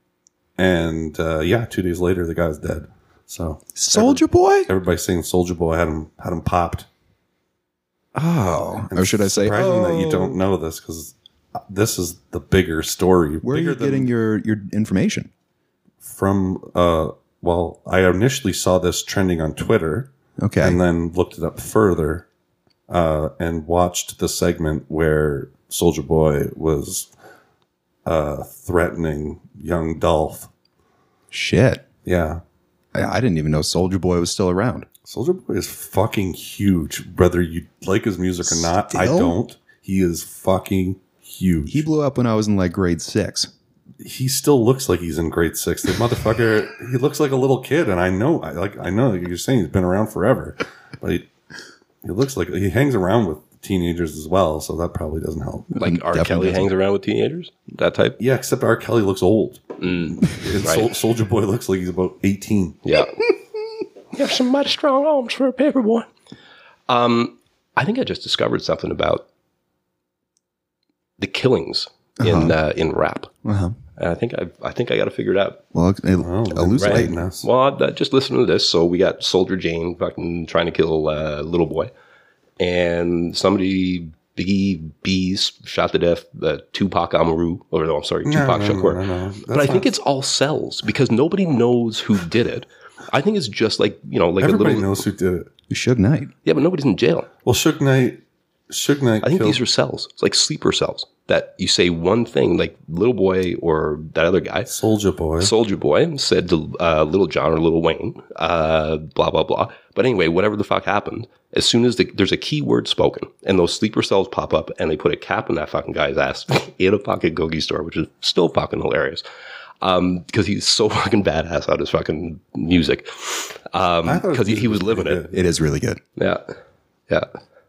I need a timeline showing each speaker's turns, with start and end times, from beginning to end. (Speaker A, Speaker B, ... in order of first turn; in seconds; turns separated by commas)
Speaker A: 0.6-6.9, Speaker B: 3.8-4.7, Speaker B: 8.2-10.4, Speaker A: 8.9-14.1, Speaker B: 13.4-15.3, Speaker A: 16.0-22.3, Speaker B: 20.4-20.8, Speaker A: 22.9-27.1, Speaker A: 28.1-30.5, Speaker B: 31.3-31.9, Speaker A: 32.0-32.4, Speaker B: 32.9-34.9, Speaker A: 35.1-41.9, Speaker B: 38.4-39.4, Speaker B: 41.7-43.5, Speaker A: 44.0-51.3, Speaker A: 52.0-55.7, Speaker B: 55.7-56.7, Speaker C: 55.8-58.2, Speaker A: 58.2-62.8, Speaker C: 59.8-60.9, Speaker C: 62.8-63.2, Speaker C: 64.1-66.1, Speaker C: 66.9-69.2, Speaker C: 71.2-73.3, Speaker B: 72.2-72.6, Speaker B: 73.5-73.8, Speaker C: 74.0-75.6, Speaker B: 75.7-77.2, Speaker A: 76.2-77.5, Speaker C: 76.8-81.9, Speaker C: 82.6-95.0, Speaker A: 88.2-89.9, Speaker A: 94.4-95.5, Speaker B: 95.7-96.3, Speaker C: 96.5-97.3, Speaker A: 97.5-99.6, Speaker C: 99.2-104.7, Speaker A: 104.7-105.5, Speaker C: 105.4-119.2, Speaker C: 119.8-125.3, Speaker A: 124.0-125.3, Speaker B: 125.3-126.0, Speaker C: 126.2-126.5